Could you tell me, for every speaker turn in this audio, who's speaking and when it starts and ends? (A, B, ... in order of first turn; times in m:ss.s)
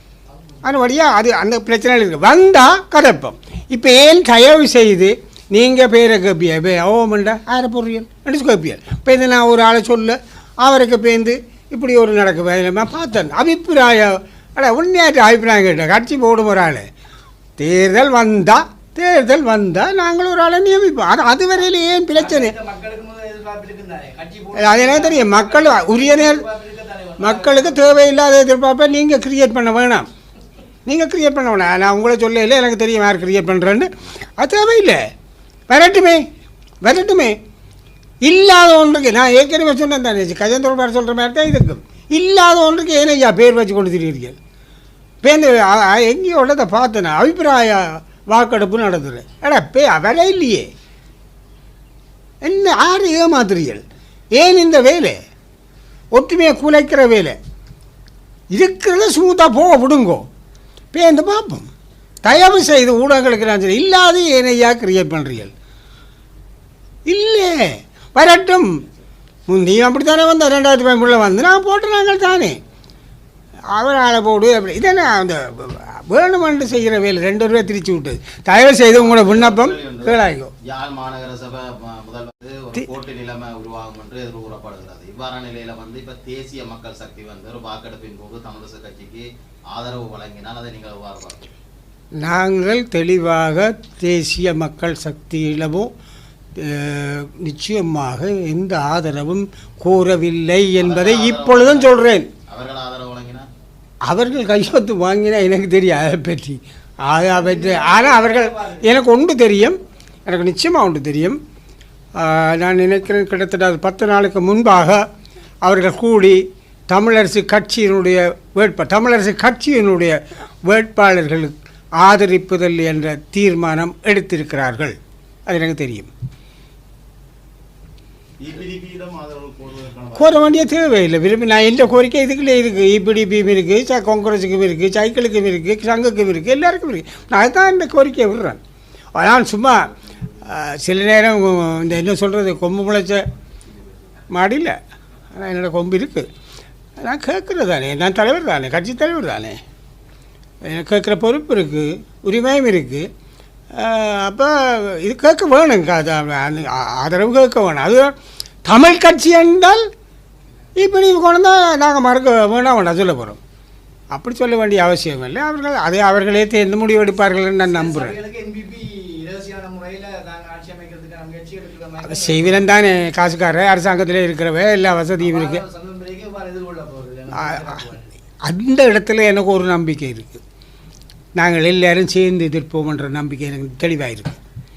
0:00.6-0:16.9 A
0:17.6-0:22.6 A
0:22.1-0:28.0 B
0:24.5-0:26.4 A
0:27.2-0:30.1 A
0:30.9-0:35.0 A
0:35.7-0:36.2 A
0:36.8-0:37.4 A
0:38.2-0:44.4 A
0:45.2-0:50.7 A
0:52.4-0:53.8 A
0:54.4-0:55.2 A
0:56.1-0:57.4 A
0:58.5-1:00.3 A
1:00.9-1:01.7 A
1:02.2-1:05.5 A
1:07.1-1:08.8 A
1:09.5-1:12.6 A
1:13.7-1:20.5 A
1:18.6-1:31.5 C
1:32.2-1:35.9 A
1:36.6-1:42.3 A
1:40.8-1:43.5 C
1:44.1-1:51.4 A
1:47.5-1:48.9 B
1:52.2-1:55.0 A
1:55.6-2:05.0 A
2:05.5-2:06.1 A
2:08.4-2:10.7 C
2:10.2-2:18.6 A
2:19.2-2:19.9 A
2:20.4-2:23.2 A
2:23.6-2:23.9 C
2:24.3-2:24.8 A
2:25.3-2:26.3 A
2:27.0-2:29.6 A
2:30.6-2:33.1 A
2:33.7-2:38.1 A
2:38.7-2:39.8 A
2:40.8-2:43.4 A
2:44.1-2:48.2 A
2:47.7-2:52.6 B
2:52.0-2:55.6 A
2:55.2-2:58.1 B
2:57.3-2:57.8 A
2:58.4-3:00.4 A
3:01.4-3:04.4 A